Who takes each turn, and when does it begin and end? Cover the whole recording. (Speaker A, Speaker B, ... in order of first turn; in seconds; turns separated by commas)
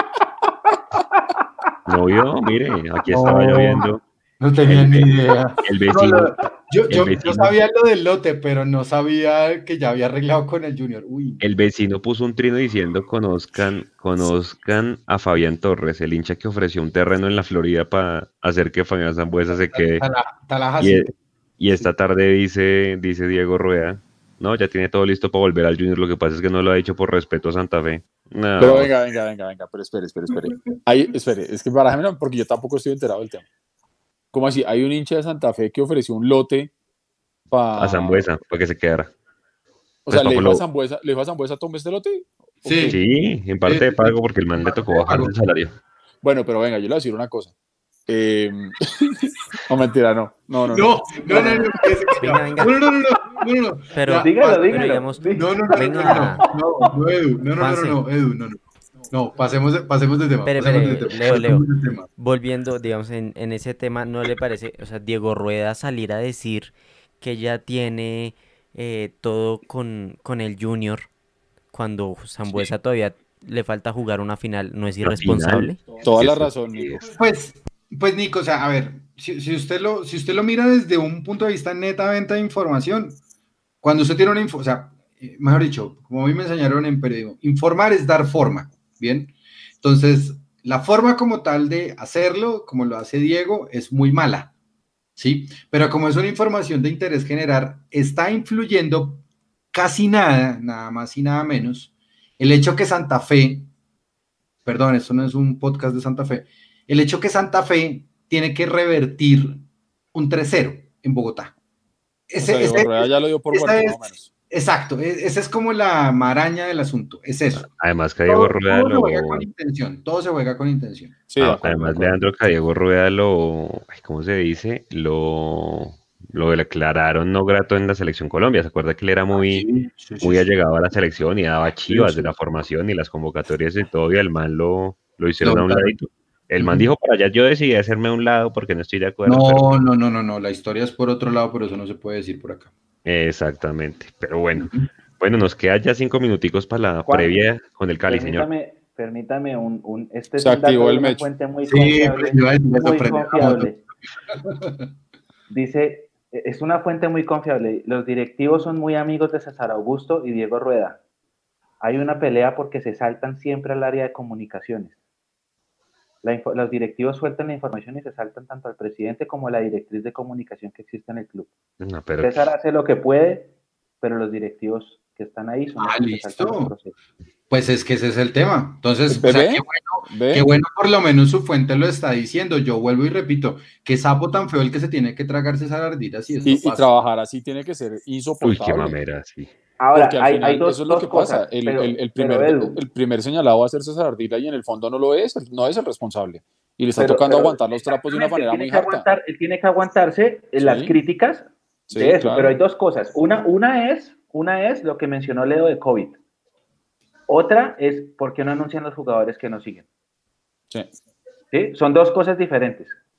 Speaker A: 1.9-4.0, Speaker B: 3.1-11.4, Speaker A: 4.6-7.6, Speaker A: 11.4-20.1, Speaker B: 19.7-21.1, Speaker A: 20.8-28.9, Speaker C: 28.6-33.5, Speaker C: 34.3-36.7, Speaker C: 37.5-38.3, Speaker A: 37.8-39.1, Speaker C: 40.0-43.0, Speaker A: 40.1-40.6, Speaker B: 42.6-43.0, Speaker A: 42.9-45.7, Speaker B: 43.6-45.3, Speaker C: 46.2-47.5, Speaker C: 48.1-51.5, Speaker B: 50.7-62.1, Speaker D: 51.3-52.7, Speaker D: 53.9-56.4, Speaker E: 54.1-56.5, Speaker D: 57.6-58.0, Speaker D: 60.4-61.6, Speaker D: 62.2-71.1, Speaker D: 71.7-75.8, Speaker A: 75.0-77.0, Speaker C: 76.0-77.0, Speaker B: 77.1-83.2, Speaker B: 83.8-94.5, Speaker B: 95.2-103.7, Speaker B: 104.7-111.5, Speaker B: 112.3-114.0, Speaker C: 112.4-114.3, Speaker B: 114.5-117.7, Speaker A: 117.6-119.5, Speaker B: 118.2-121.2, Speaker C: 121.3-122.2, Speaker A: 121.4-129.7, Speaker B: 129.3-130.4, Speaker A: 130.2-139.7, Speaker B: 131.9-132.3, Speaker B: 135.4-136.0, Speaker B: 136.6-136.9, Speaker B: 139.2-142.7, Speaker A: 143.1-148.5, Speaker B: 144.6-144.8, Speaker E: 147.1-147.3, Speaker E: 148.1-153.8, Speaker C: 150.4-151.2, Speaker B: 151.7-153.8, Speaker B: 154.4-154.7, Speaker E: 155.5-161.0, Speaker E: 161.8-165.0, Speaker E: 166.2-171.5, Speaker A: 171.8-172.4, Speaker E: 172.2-173.5, Speaker E: 174.0-176.9, Speaker B: 175.8-176.7, Speaker B: 177.5-186.9, Speaker C: 179.1-180.5, Speaker C: 186.4-188.9, Speaker A: 188.4-189.5, Speaker E: 189.8-192.8, Speaker C: 189.9-199.1, Speaker E: 196.9-206.2, Speaker C: 200.6-200.9, Speaker C: 201.9-202.6, Speaker E: 207.3-209.8, Speaker E: 211.5-212.9